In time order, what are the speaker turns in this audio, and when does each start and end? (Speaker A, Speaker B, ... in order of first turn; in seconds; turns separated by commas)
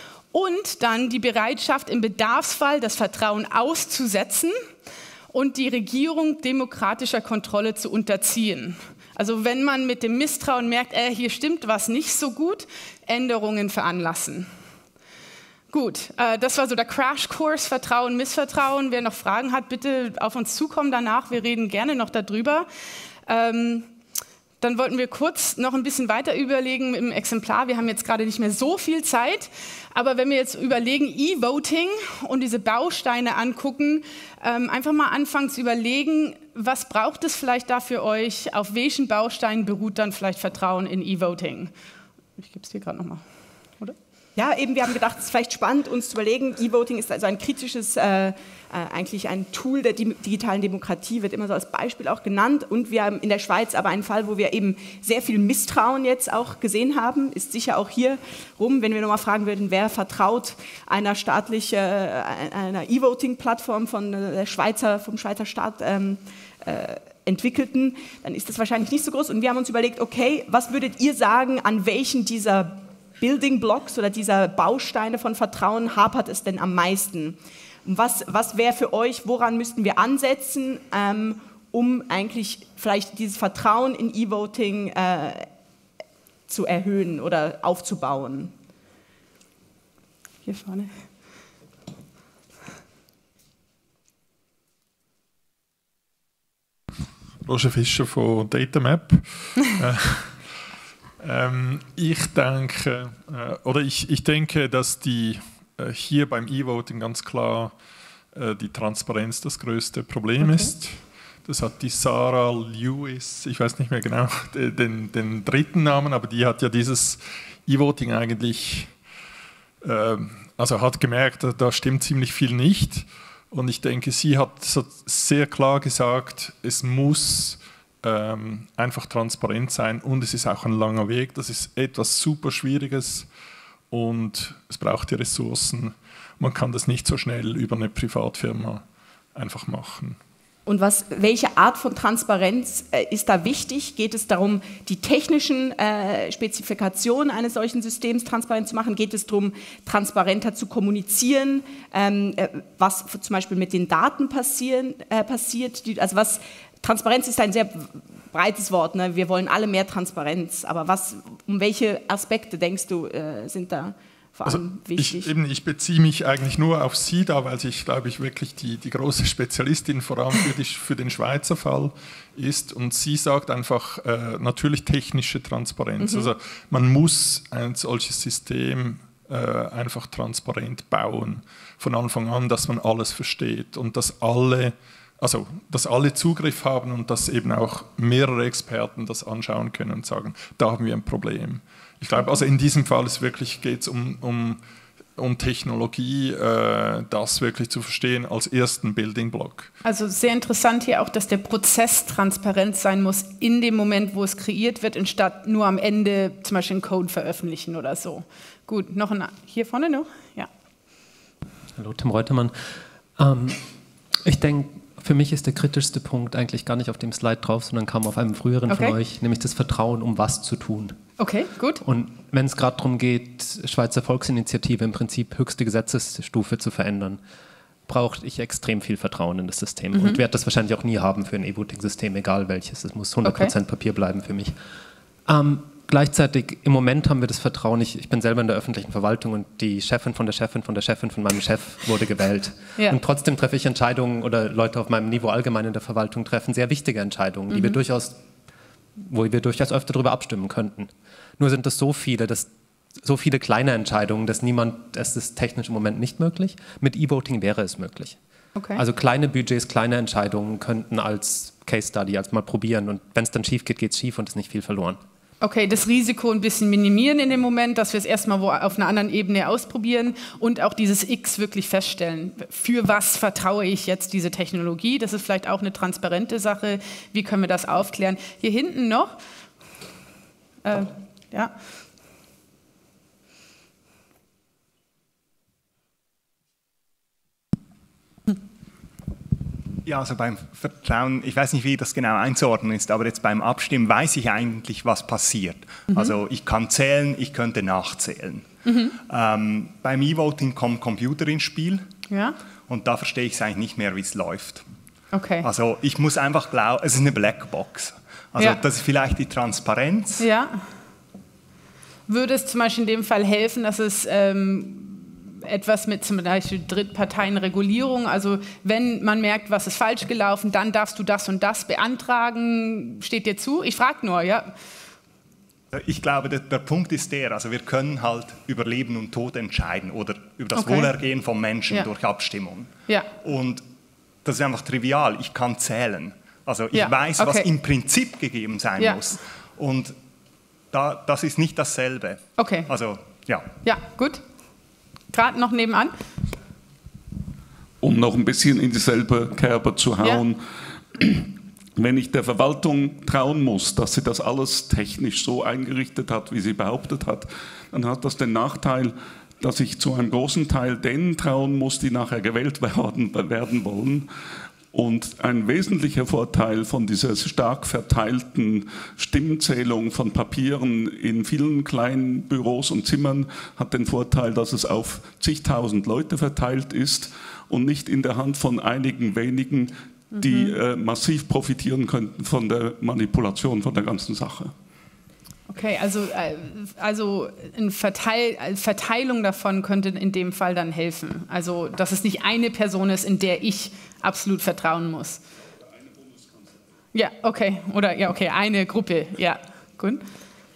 Speaker A: 0.3-4.5, Speaker A: 5.3-14.5, Speaker A: 15.7-22.7, Speaker A: 23.3-23.9, Speaker A: 24.6-41.7, Speaker A: 42.4-43.2, Speaker B: 44.4-85.5, Speaker B: 86.5-88.5, Speaker A: 90.4-90.9, Speaker C: 97.4-100.4, Speaker C: 101.2-107.7, Speaker C: 108.3-118.9, Speaker C: 119.8-133.3, Speaker C: 133.9-138.8, Speaker C: 139.3-140.2, Speaker B: 140.7-165.3, Speaker C: 164.5-194.6, Speaker B: 176.0-176.3, Speaker C: 195.2-199.7, Speaker A: 199.8-210.5, Speaker D: 211.8-212.6, Speaker D: 213.2-213.6, Speaker D: 214.2-221.0, Speaker A: 218.7-218.9, Speaker A: 221.2-221.8, Speaker D: 221.8-227.2, Speaker D: 227.9-234.5, Speaker A: 229.9-230.2, Speaker A: 233.2-233.5, Speaker D: 235.3-248.2, Speaker A: 247.5-247.8, Speaker D: 249.0-252.5, Speaker D: 253.0-258.2, Speaker A: 258.6-258.8, Speaker D: 258.8-265.0, Speaker A: 265.4-279.2, Speaker A: 280.6-281.5, Speaker E: 289.8-298.5, Speaker A: 298.6-298.9, Speaker E: 299.0-301.8, Speaker A: 302.1-302.4, Speaker E: 302.7-304.6, Speaker A: 305.1-305.4, Speaker E: 305.4-310.3, Speaker A: 310.2-310.5, Speaker A: 312.1-324.5, Speaker E: 325.7-333.6, Speaker A: 330.5-330.9, Speaker E: 334.2-339.9, Speaker A: 336.7-337.5, Speaker E: 340.7-343.5, Speaker A: 342.4-342.7, Speaker A: 343.6-344.2, Speaker A: 345.1-345.9, Speaker F: 347.8-350.4, Speaker F: 350.9-364.1, Speaker F: 364.7-384.5, Speaker A: 380.1-380.6, Speaker A: 385.5-395.2, Speaker A: 396.9-400.0